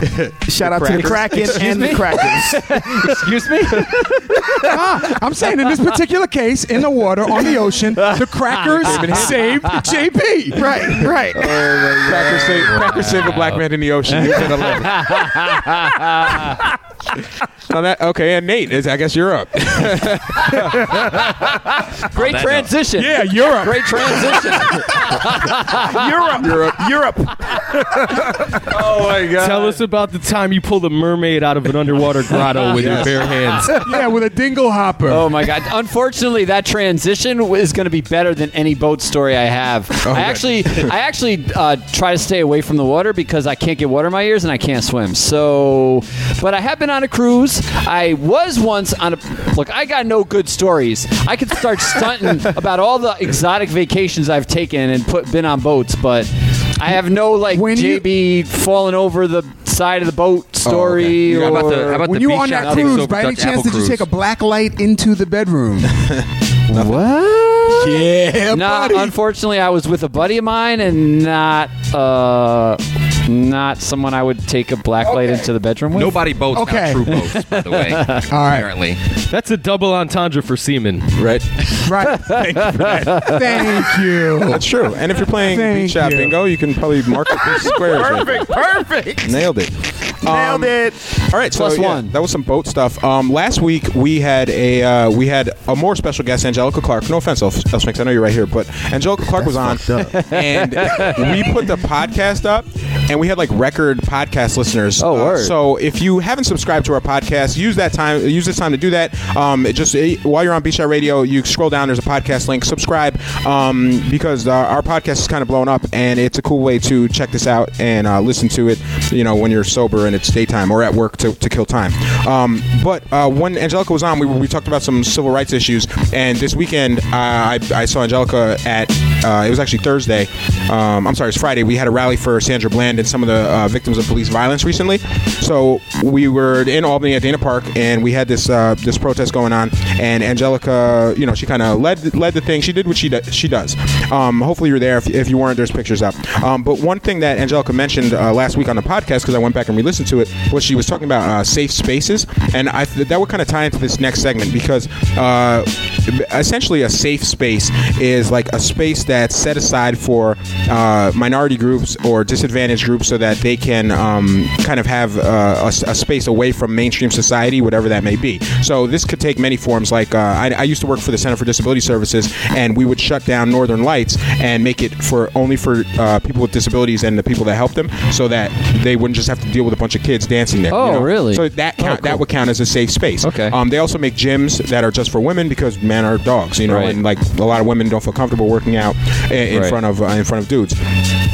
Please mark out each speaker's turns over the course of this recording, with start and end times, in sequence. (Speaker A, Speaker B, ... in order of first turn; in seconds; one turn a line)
Speaker A: 0.2-1.8
Speaker B: 0.5-2.6
Speaker C: 0.9-5.8
Speaker D: 4.5-11.7
Speaker C: 7.3-9.9
Speaker A: 8.7-9.5
Speaker C: 11.4-13.5
Speaker A: 12.0-15.3
Speaker C: 14.1-16.6
Speaker A: 17.7-21.0
Speaker C: 20.4-26.2
Speaker E: 22.1-22.7
Speaker D: 23.0-24.5
Speaker B: 25.9-27.6
Speaker A: 26.4-26.8
Speaker C: 28.7-29.8
Speaker F: 29.4-33.8
Speaker C: 32.6-33.9
Speaker D: 33.8-35.3
Speaker C: 35.1-63.1
Speaker A: 40.0-40.9
Speaker D: 57.5-58.1
Speaker A: 60.6-61.6
Speaker E: 61.2-64.1
Speaker D: 61.9-65.9
Speaker A: 66.1-67.0
Speaker C: 66.7-76.2
Speaker A: 67.8-68.1
Speaker D: 67.8-69.2
Speaker E: 75.9-79.0
Speaker D: 76.5-77.1
Speaker C: 77.1-78.3
Speaker D: 78.3-78.7
Speaker F: 79.3-81.1
Speaker A: 81.2-81.5
Speaker D: 81.8-84.7
Speaker C: 82.1-83.6
Speaker A: 82.3-83.3
Speaker A: 84.5-88.5
Speaker D: 85.4-86.4
Speaker B: 87.7-89.4
Speaker A: 89.2-90.8
Speaker B: 90.2-91.0
Speaker A: 91.3-190.8
Speaker C: 91.5-92.1
Speaker B: 99.6-100.1
Speaker C: 100.0-101.5
Speaker C: 105.0-105.5
Speaker C: 180.7-182.2
Speaker C: 183.2-183.6
Speaker C: 186.7-187.0
Speaker C: 189.5-189.8